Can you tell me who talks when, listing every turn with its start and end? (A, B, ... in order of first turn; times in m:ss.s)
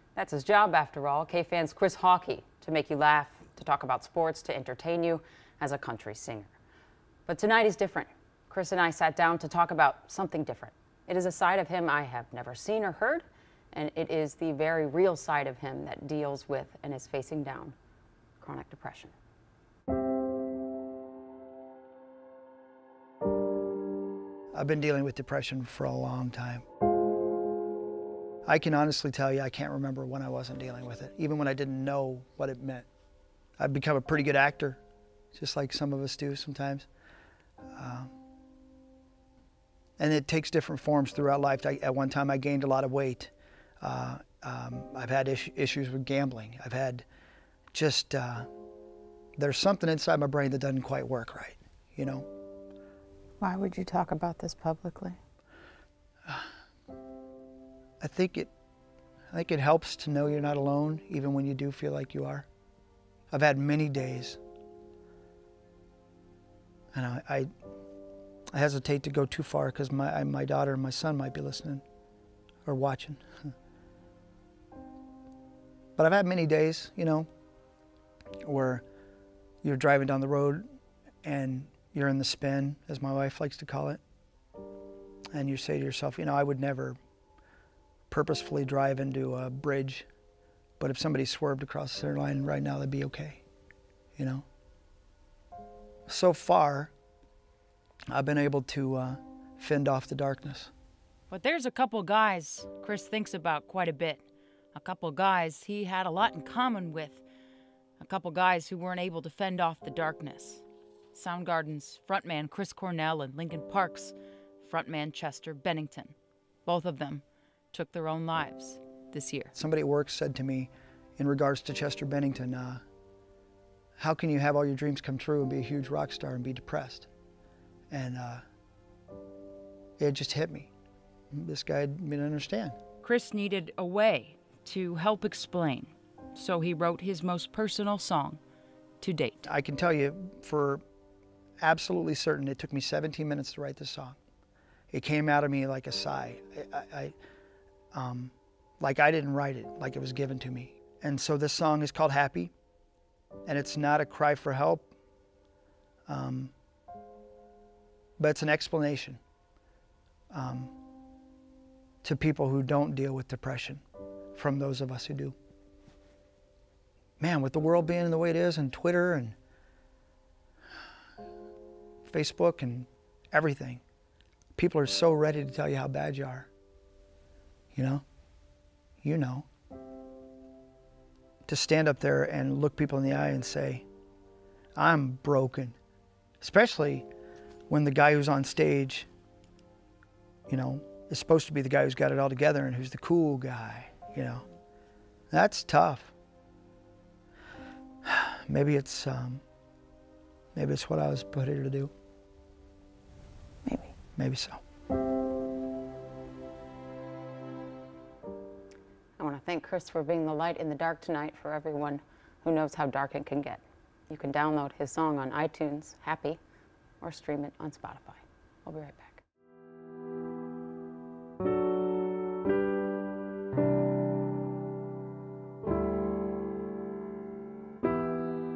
0:00.1-0:06.5 A
0:07.2-0:17.8 A
0:18.4-0:19.1 A
0:24.5-0:26.6 B
0:28.4-0:32.9 B
0:33.6-0:34.8 B
0:35.3-0:36.9 B
0:37.7-0:38.1 B
0:40.0-0:47.0 B
0:47.7-0:48.5 B
0:49.4-0:52.3 B
0:53.4-0:55.2 C
0:58.0-0:58.5 B
0:59.3-1:02.4 B
1:03.3-1:04.4 B
1:06.9-1:07.5 B
1:08.5-1:11.8 B
1:12.6-1:13.2 B
1:16.0-1:17.3 B
1:18.4-1:18.8 B
1:19.6-1:20.6 B
1:21.2-1:24.0 B
1:25.3-1:27.0 B
1:28.1-1:30.1 B
1:30.8-1:33.4 B
1:34.2-1:34.4 B
1:36.1-1:36.9 B
1:38.1-1:40.7 B
1:41.3-1:44.2 D
1:44.7-1:47.2 D
1:48.0-1:56.1 D
1:56.6-1:59.5 D
1:59.5-2:02.8 B
2:04.0-2:07.1 B
2:07.9-2:08.4 B
2:10.0-2:10.7 B
2:11.3-2:12.8 B
2:13.0-2:18.4 D
2:19.0-2:19.4 D
2:19.4-2:20.8 B
2:21.6-2:24.2 B
2:24.9-2:27.1 B
2:27.9-2:32.5 B
2:33.4-2:34.9 B
2:36.1-2:36.5 B
2:38.2-2:39.2 B
2:40.3-2:40.7 B
2:42.0-2:43.8 B
2:44.3-2:45.4 B
2:47.2-2:49.4 B
2:52.0-2:53.8 B
2:54.5-2:56.5 B
2:57.7-2:58.0 B
2:59.0-2:59.5 B
3:01.5-3:03.8 B
3:04.8-3:05.8 B
3:06.4-3:07.1 B
3:07.7-3:09.1 B
3:10.5-3:14.4 B
3:15.3-3:16.1 B
3:18.0-3:19.4 B
3:20.5-3:21.9 B
3:23.6-3:23.9 C
3:24.2-3:24.6 B
3:29.2-3:36.4 A
3:37.0-3:39.2 A